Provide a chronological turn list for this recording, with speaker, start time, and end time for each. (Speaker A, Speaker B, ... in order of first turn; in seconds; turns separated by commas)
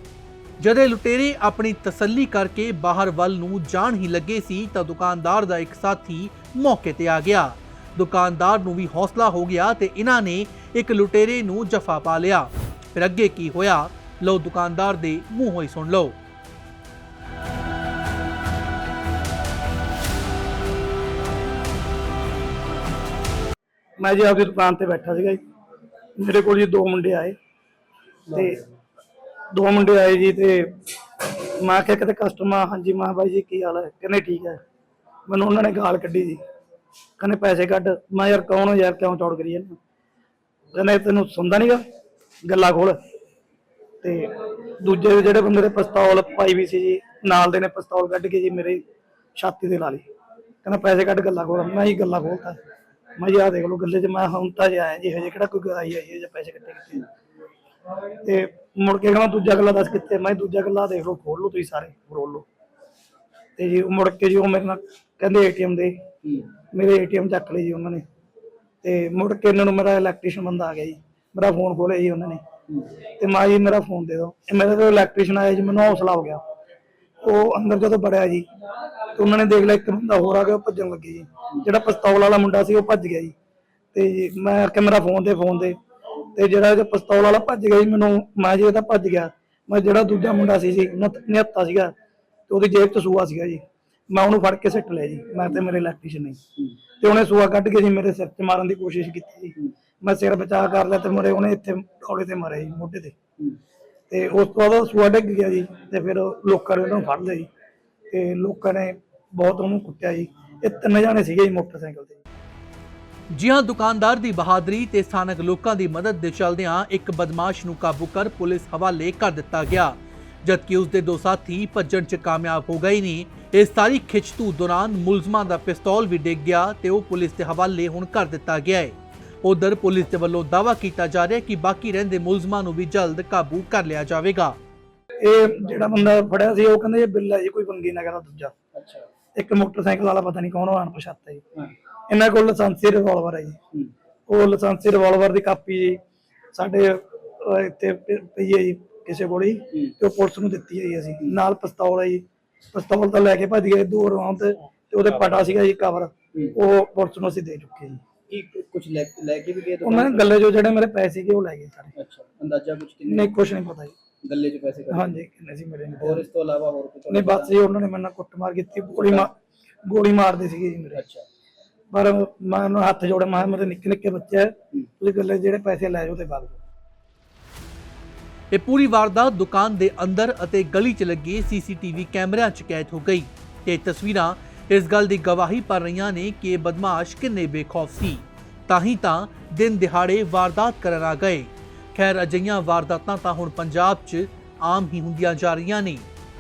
Speaker A: 0.6-16.2, Speaker B: 24.0-25.4, Speaker B: 26.2-27.4, Speaker B: 28.3-28.6, Speaker B: 29.5-30.7, Speaker B: 31.6-34.6, Speaker B: 35.3-36.4, Speaker B: 37.2-39.8, Speaker B: 40.7-41.8, Speaker B: 42.5-43.0, Speaker B: 44.0-48.8, Speaker B: 49.4-50.0, Speaker B: 50.6-52.6, Speaker B: 53.2-57.1, Speaker B: 58.2-62.5, Speaker B: 63.6-66.0, Speaker B: 66.7-68.0, Speaker B: 68.8-72.4, Speaker B: 73.2-76.4, Speaker B: 77.2-78.5, Speaker B: 79.2-83.3, Speaker B: 83.9-85.8, Speaker B: 86.3-91.9, Speaker B: 92.5-96.4, Speaker B: 97.0-103.2, Speaker B: 104.1-107.5, Speaker B: 108.1-112.2, Speaker A: 113.3-134.6, Speaker B: 135.2-138.5, Speaker C: 138.7-139.1, Speaker B: 139.3-141.4, Speaker B: 142.1-143.6, Speaker B: 144.3-146.0, Speaker B: 146.5-158.0, Speaker C: 158.3-160.3, Speaker B: 159.8-161.9, Speaker C: 162.0-163.3, Speaker B: 163.1-163.9, Speaker C: 164.2-165.1, Speaker B: 164.9-166.3, Speaker C: 166.0-167.6, Speaker B: 167.1-169.3, Speaker C: 168.9-169.3, Speaker B: 169.8-171.0, Speaker C: 170.9-171.2, Speaker B: 171.9-176.6, Speaker A: 178.5-196.1